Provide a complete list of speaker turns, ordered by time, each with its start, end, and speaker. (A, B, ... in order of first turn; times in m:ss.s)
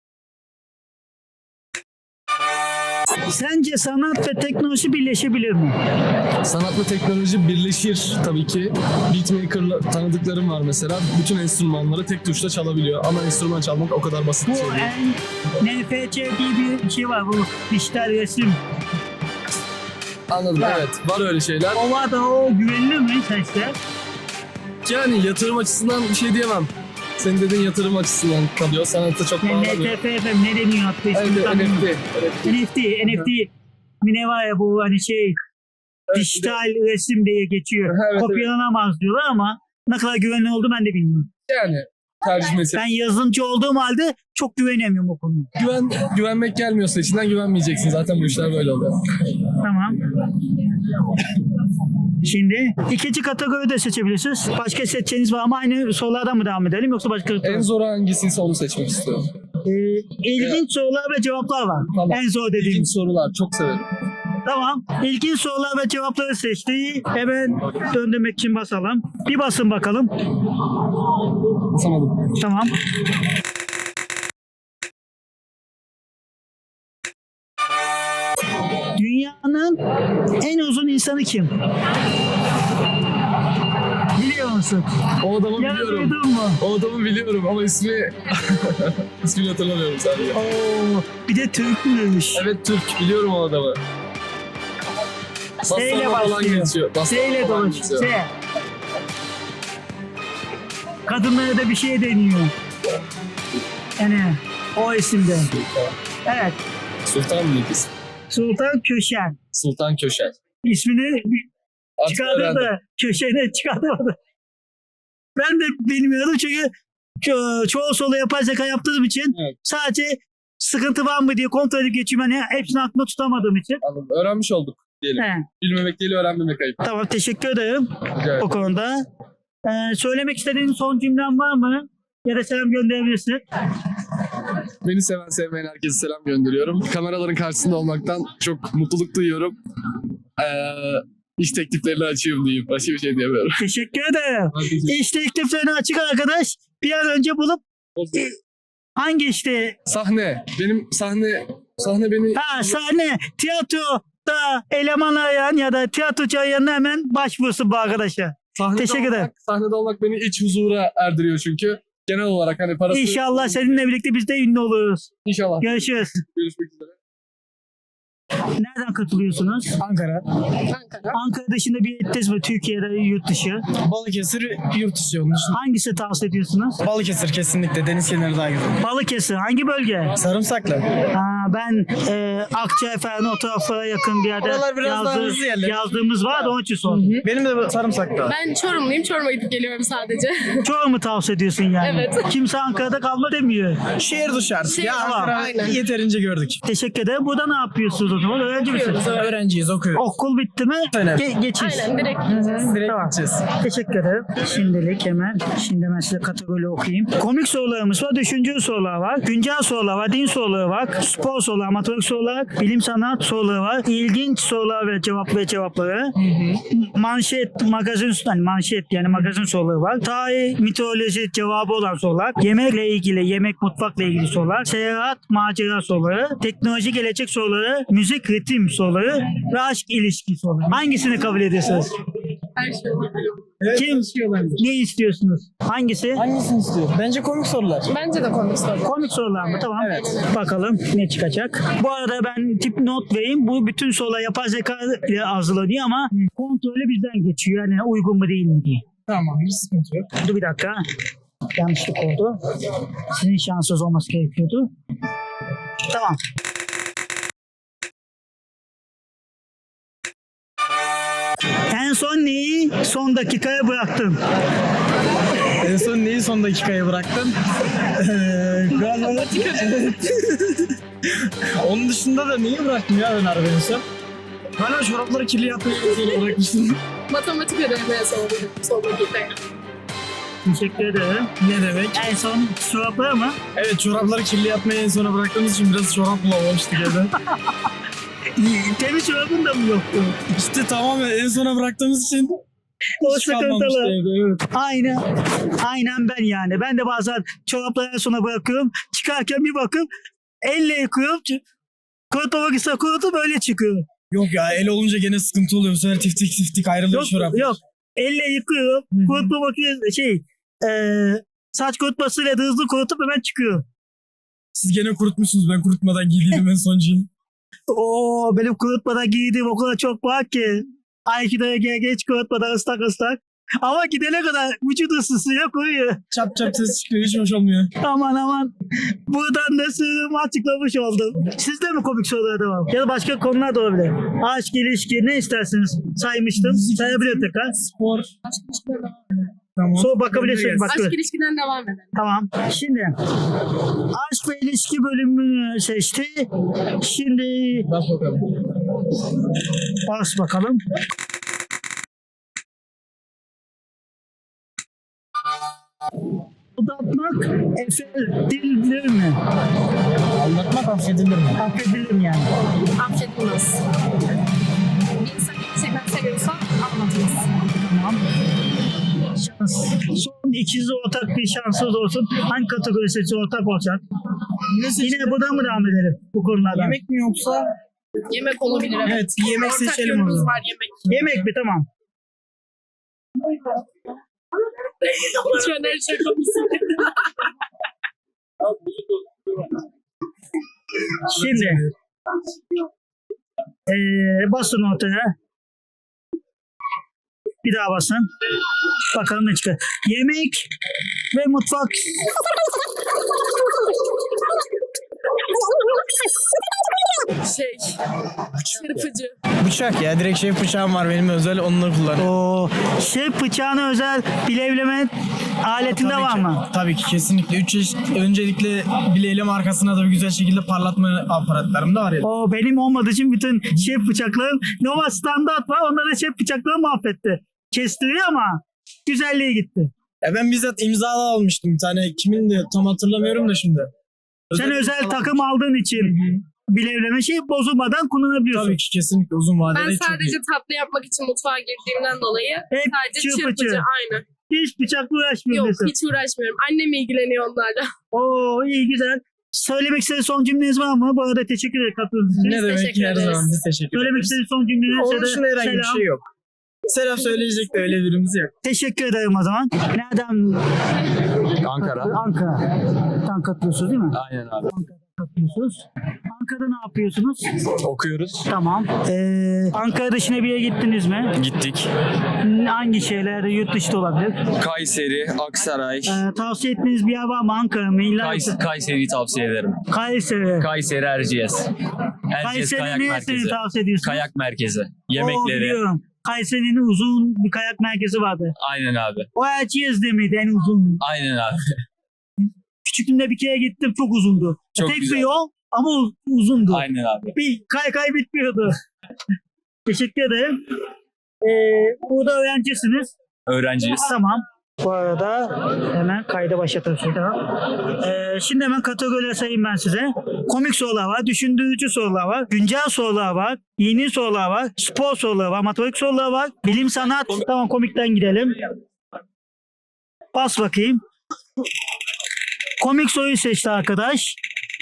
0:03.3-0:05.8 A
0:06.4-0:14.9 B
0:14.5-0:18.6 A
0:20.3-0:21.8 B
0:20.6-0:20.8 A
0:21.7-0:23.8 A
0:24.8-0:30.0 B
0:29.4-0:31.9 A
0:31.1-0:32.6 B
0:32.4-0:35.4 A
0:36.1-0:36.6 B
0:36.1-0:41.3 A
0:37.9-0:38.5 B
0:41.5-0:42.8 B
0:42.7-0:45.5 A
0:45.6-0:49.2 B
0:49.6-0:50.0 A
0:52.2-0:57.7 A
0:57.4-0:59.3 B
0:59.6-1:02.9 A
1:00.4-1:00.6 B
1:01.9-1:03.8 B
1:04.4-1:10.1 A
1:11.7-1:12.3 B
1:12.4-1:12.7 A
1:19.0-1:19.8 A
1:20.4-1:21.5 A
1:24.1-1:24.9 A
1:25.2-1:30.4 B
1:25.6-1:26.6 A
1:30.3-1:32.4 A
1:32.3-1:33.8 B
1:35.6-1:38.1 B
1:35.7-1:38.3 A
1:41.0-1:42.5 A
1:44.0-1:45.5 A
1:45.4-1:45.9 B
1:46.2-1:46.6 A
1:47.0-1:47.9 B
1:48.3-1:49.4 A
1:49.5-1:50.4 B
1:50.6-1:51.5 A
1:52.0-1:52.7 B
1:52.1-1:54.2 A
1:55.4-1:56.7 A
1:57.2-2:03.8 A
2:03.8-2:06.8 B
2:05.2-2:05.4 A
2:06.8-2:09.0 A
2:08.1-2:08.4 B
2:09.6-2:13.4 A
2:14.8-2:19.6 B
2:20.4-2:23.6 B
2:23.6-2:27.6 A
2:24.5-2:25.0 B
2:28.0-2:28.3 B
2:29.0-2:29.8 A
2:29.8-2:32.7 B
2:32.3-2:39.3 A
2:38.6-2:43.3 B
2:42.9-2:45.1 A
2:45.2-2:47.0 B
2:45.6-2:46.2 A
2:48.6-2:49.7 A
2:49.8-2:50.2 C
2:50.7-2:51.1 D
2:51.1-2:53.6 A
2:53.8-2:55.6 C
2:55.5-2:56.8 A
2:56.8-2:58.8 C
2:58.8-3:00.2 A
3:00.2-3:00.8 C
3:01.1-3:07.0 A
3:04.4-3:05.8 C
3:06.8-3:08.3 C
3:08.3-3:10.6 D
3:10.6-3:13.8 A
3:11.8-3:12.2 D
3:14.0-3:16.6 C
3:14.7-3:15.8 D
3:14.9-3:15.3 A
3:16.6-3:19.1 A
3:18.6-3:19.3 D
3:19.1-3:20.0 C
3:20.0-3:21.9 A
3:20.9-3:21.2 C
3:21.6-3:22.7 D
3:22.3-3:23.5 C
3:22.8-3:51.9 A
3:52.6-3:53.3 D
3:53.6-3:54.6 C
3:53.7-3:56.2 A
3:56.1-3:57.9 C
3:57.9-4:00.2 D
3:58.8-4:08.8 A
3:59.8-4:00.2 C
4:09.1-4:10.1 C
4:10.2-4:10.8 A
4:11.6-4:12.4 A
4:13.1-4:14.7 A
4:15.9-4:16.2 A
4:21.7-4:24.2 A
4:25.4-4:33.8 C
4:28.7-4:30.0 D
4:34.6-4:36.8 C
4:37.1-4:39.4 D
4:40.4-4:41.3 A
4:41.4-4:42.1 C
4:41.9-4:43.4 A
4:43.5-4:47.1 C
4:48.4-4:50.2 A
4:50.3-4:52.4 C
4:53.0-4:53.9 A
4:53.0-4:54.4 C
4:54.5-4:55.0 A
4:55.6-4:59.9 A
5:00.4-5:01.4 A
5:02.1-5:03.8 A
5:04.1-5:07.6 C
5:06.9-5:13.6 A
5:08.9-5:09.3 C
5:14.5-5:17.1 C
5:17.7-5:26.0 A
5:26.1-5:27.7 C
5:27.8-5:28.5 A
5:29.0-5:37.5 A
5:36.4-5:38.1 C
5:38.2-5:39.0 D
5:39.6-5:40.8 C
5:39.8-5:41.0 A
5:40.6-5:41.9 D
5:41.9-5:42.9 A
5:43.7-5:47.7 A
5:47.7-5:48.2 C
5:49.8-5:50.6 A
5:56.6-5:59.2 A
6:00.1-6:01.4 C
6:01.4-6:02.3 A
6:02.8-6:03.6 D
6:04.9-6:07.3 D
6:07.4-6:08.1 A
6:09.1-6:13.8 A
6:14.5-6:15.6 C
6:14.8-6:16.8 A
6:16.5-6:17.5 C
6:18.0-6:20.8 D
6:18.8-6:20.3 C
6:20.9-6:21.6 A
6:24.8-6:27.2 D
6:31.1-6:31.6 A
6:31.2-6:31.7 C
6:33.7-6:35.1 A
6:37.4-6:38.1 A
6:38.8-6:40.5 A
6:41.1-6:42.2 A
6:47.1-6:47.8 D
6:48.4-6:49.1 D
6:49.4-6:52.1 C
6:52.0-6:56.4 A
6:55.6-7:02.0 C
7:02.0-7:09.7 A
7:10.0-7:13.7 C
7:14.3-7:15.2 C
7:14.3-7:16.0 A
7:15.8-7:16.2 C
7:16.5-7:18.6 A
7:18.3-7:20.2 C
7:19.5-7:24.0 D
7:22.5-7:23.6 A
7:24.3-7:25.7 A
7:25.3-7:27.7 D
7:27.9-7:32.4 A
7:32.1-7:34.2 C
7:32.3-7:33.3 D
7:33.7-7:35.8 A
7:34.7-7:36.0 C
7:36.6-7:38.3 C
7:38.4-7:40.4 A
7:41.4-7:42.0 E
7:41.6-7:47.2 A
7:43.9-7:44.5 E
7:47.6-7:48.2 E
7:48.3-7:51.1 A
7:51.1-7:51.7 E
7:52.2-7:54.2 A
7:54.3-7:56.0 E
7:55.8-7:58.4 A
7:58.0-7:59.6 E
7:59.7-8:00.5 A
8:00.4-8:01.5 E
8:02.1-8:05.6 E
8:02.2-8:04.0 A
8:04.9-8:08.3 A
8:08.4-8:09.1 E
8:09.1-8:10.8 A
8:10.8-8:11.4 E
8:12.6-8:18.5 A
8:14.6-8:15.1 E
8:16.5-8:17.1 E
8:19.7-8:20.4 A
8:21.2-8:22.9 A
8:23.3-8:23.9 E
8:23.8-8:38.3 A
8:40.1-8:40.8 A
8:42.6-8:44.2 A